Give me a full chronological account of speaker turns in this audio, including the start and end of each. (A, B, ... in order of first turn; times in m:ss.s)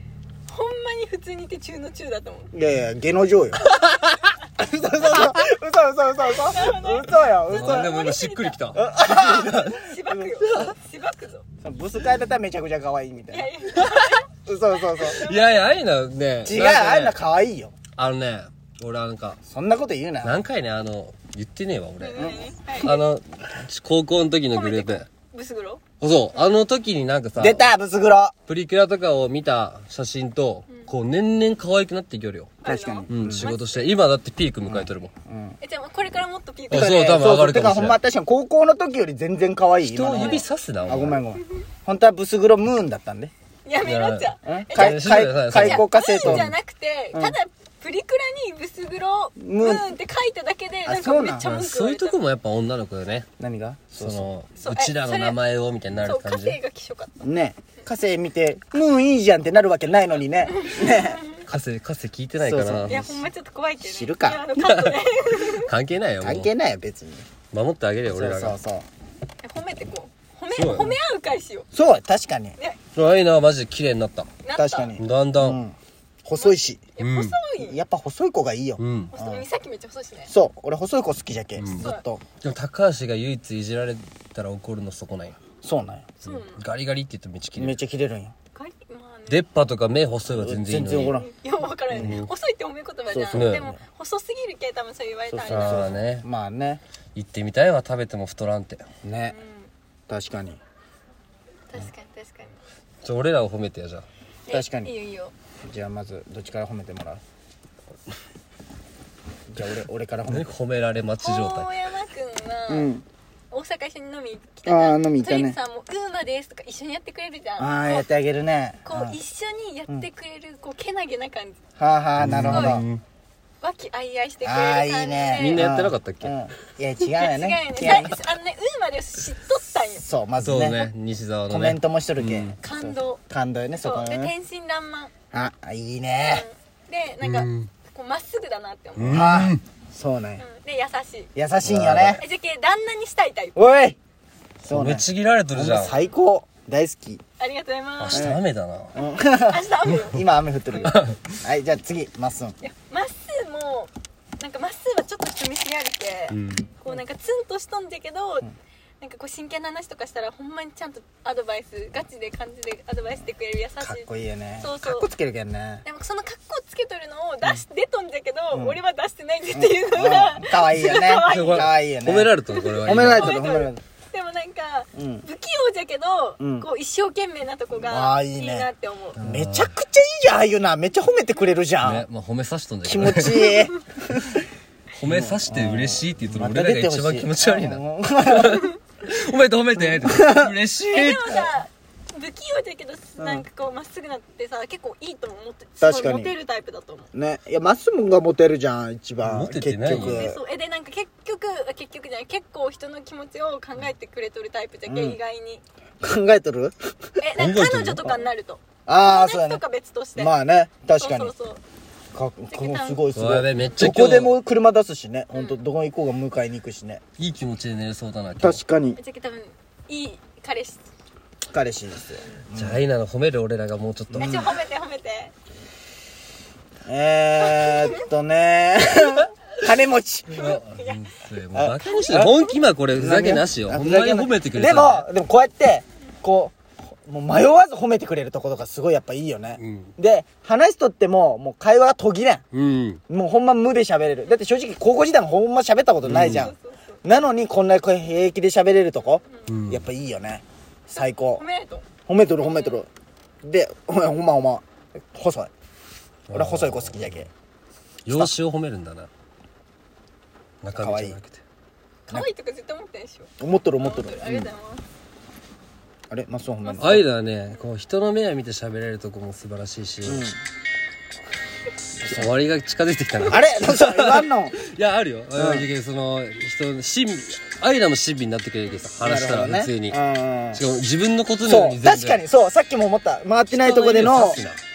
0:00.5-0:02.5 A
0:02.5-0:03.8 B
0:03.7-0:04.4 A
0:04.6-0:08.0 B
0:06.2-0:08.6 A
0:07.5-0:09.8 C
0:08.7-0:10.8 B
0:09.7-0:11.4 A
0:10.5-0:10.8 C
0:11.6-0:13.5 B
0:13.3-0:14.3 A
0:13.8-0:14.1 C
0:14.5-0:15.2 B
0:14.9-0:15.6 A
0:15.0-0:17.2 C
0:16.4-0:17.8 B
0:18.0-0:19.4 C
0:19.5-0:20.4 B
0:20.2-0:25.1 C
0:22.0-0:23.0 A
0:22.2-0:22.5 B
0:24.5-0:25.8 A
0:26.0-0:27.7 C
0:27.4-0:28.4 B
0:28.5-0:32.5 C
0:32.6-0:33.8 A
0:32.6-0:33.5 B
0:33.1-0:35.1 C
0:34.7-0:35.6 B
0:35.6-0:37.0 A
0:36.7-0:38.0 C
0:36.7-0:43.3 B
0:39.8-0:41.2 C
0:43.6-0:52.2 A
0:43.8-0:46.5 C
0:44.4-0:46.6 B
0:47.1-0:47.4 B
0:49.4-0:49.9 B
0:50.9-0:51.5 B
0:51.4-0:53.3 C
0:53.4-0:54.3 B
0:54.0-0:56.6 C
0:54.6-0:55.4 A
0:56.0-0:57.8 A
0:57.2-1:01.2 B
1:00.5-1:01.4 A
1:01.4-1:03.0 C
1:02.4-1:03.3 B
1:02.9-1:05.7 A
1:03.8-1:04.5 B
1:04.6-1:06.5 C
1:06.2-1:07.3 B
1:07.5-1:08.6 C
1:08.1-1:08.9 B
1:09.4-1:11.7 A
1:10.5-1:11.0 C
1:11.7-1:12.6 B
1:13.0-1:14.3 C
1:14.4-1:14.9 A
1:14.5-1:16.8 B
1:15.0-1:15.6 C
1:16.4-1:17.8 A
1:17.0-1:17.4 C
1:17.6-1:19.4 B
1:18.8-1:19.1 C
1:19.1-1:20.3 A
1:20.3-1:22.2 B
1:21.6-1:21.9 C
1:22.4-1:25.4 C
1:25.6-1:26.1 B
1:26.2-1:26.6 A
1:26.2-1:27.8 C
1:27.6-1:28.3 B
1:28.5-1:29.4 A
1:29.3-1:31.2 C
1:30.3-1:31.3 B
1:31.1-1:35.9 A
1:31.9-1:32.2 B
1:31.9-1:32.3 C
1:33.1-1:33.6 B
1:33.3-1:33.8 C
1:35.3-1:36.8 B
1:35.5-1:36.2 C
1:37.2-1:38.8 C
1:39.0-1:39.4 B
1:39.3-1:39.7 A
1:40.1-1:40.6 B
1:41.7-1:42.6 A
1:43.0-1:44.1 C
1:44.5-1:45.3 A
1:44.5-1:44.9 B
1:45.7-1:47.2 B
1:49.5-1:50.5 B
1:50.3-1:51.7 C
1:51.2-1:52.9 A
1:52.7-1:53.0 B
1:53.5-1:58.1 A
1:54.7-1:55.6 B
1:57.6-1:59.2 B
1:58.8-2:01.6 A
2:01.8-2:02.9 B
2:02.2-2:03.0 C
2:02.4-2:02.8 A
2:03.6-2:05.7 A
2:04.4-2:08.2 B
2:05.4-2:06.3 C
2:07.1-2:10.1 A
2:10.0-2:10.9 B
2:10.4-2:12.6 C
2:11.5-2:14.3 B
2:12.6-2:13.2 A
2:13.8-2:15.1 A
2:15.3-2:16.4 B
2:16.3-2:19.3 A
2:17.2-2:17.7 C
2:19.0-2:19.6 C
2:19.1-2:20.4 B
2:20.4-2:21.3 A
2:21.4-2:22.2 B
2:21.6-2:22.2 C
2:22.2-2:23.6 A
2:23.6-2:24.0 B
2:24.7-2:27.2 B
2:24.7-2:26.0 C
2:27.4-2:28.3 A
2:28.0-2:28.9 C
2:28.1-2:28.4 B
2:29.0-2:30.3 A
2:29.0-2:32.6 B
2:30.8-2:31.2 C
2:32.6-2:38.5 A
2:36.3-2:36.7 C
2:39.0-2:44.1 A
2:43.8-2:45.8 B
2:44.6-2:45.1 A
2:45.8-2:51.7 A
2:48.5-2:48.8 B
2:49.5-2:52.3 B
2:51.2-2:53.4 C
2:52.5-2:59.2 A
2:52.8-2:53.8 B
2:55.0-2:55.2 B
2:56.4-2:56.7 B
2:57.8-2:58.7 B
2:59.2-2:59.7 C
2:59.2-3:02.1 B
3:01.8-3:03.6 C
3:02.8-3:04.5 B
3:05.0-3:11.5 C
3:05.0-3:08.8 B
3:09.8-3:10.6 B
3:10.9-3:17.1 A
3:13.2-3:13.4 B
3:15.8-3:16.3 B
3:17.1-3:20.4 B
3:19.2-3:20.3 C
3:19.9-3:25.6 A
3:24.9-3:25.2 B
3:26.0-3:26.8 B
3:27.2-3:30.3 A
3:27.4-3:28.2 C
3:28.9-3:29.6 B
3:30.2-3:31.3 B
3:30.9-3:31.6 A
3:32.1-3:37.0 B
3:32.5-3:33.0 A
3:33.1-3:34.4 C
3:35.3-3:35.6 A
3:37.2-3:38.6 C
3:38.4-3:39.0 B
3:39.0-3:40.9 A
3:41.5-3:42.8 B
3:42.6-3:44.5 C
3:44.1-3:44.5 B
3:44.2-3:45.3 A
3:46.9-3:50.6 B
3:47.4-3:48.0 A
3:50.3-3:51.1 A
3:50.3-3:55.1 C
3:51.5-3:52.4 B
3:51.8-3:52.4 A
3:52.9-4:02.4 B
3:59.6-3:59.9 C
4:02.5-4:03.0 C
4:03.1-4:11.4 B
4:06.0-4:06.5 C
4:06.3-4:07.0 A
4:09.5-4:09.9 C
4:11.0-4:11.9 A
4:12.1-4:12.9 B
4:12.4-4:12.8 A
4:13.4-4:15.5 B
4:16.3-4:17.3 C
4:16.3-4:17.3 B
4:18.0-4:19.1 C
4:20.6-4:21.4 C
4:20.7-4:21.2 B
4:22.1-4:24.8 A
4:23.4-4:24.5 B
4:26.1-4:27.1 B
4:26.6-4:27.0 A
4:26.8-4:30.3 C
4:30.0-4:30.4 B
4:32.0-4:40.0 C
4:33.3-4:34.6 B
4:35.4-4:35.7 B
4:39.0-4:40.6 B
4:40.6-4:42.2 C
4:41.4-4:44.4 B
4:43.5-4:44.6 C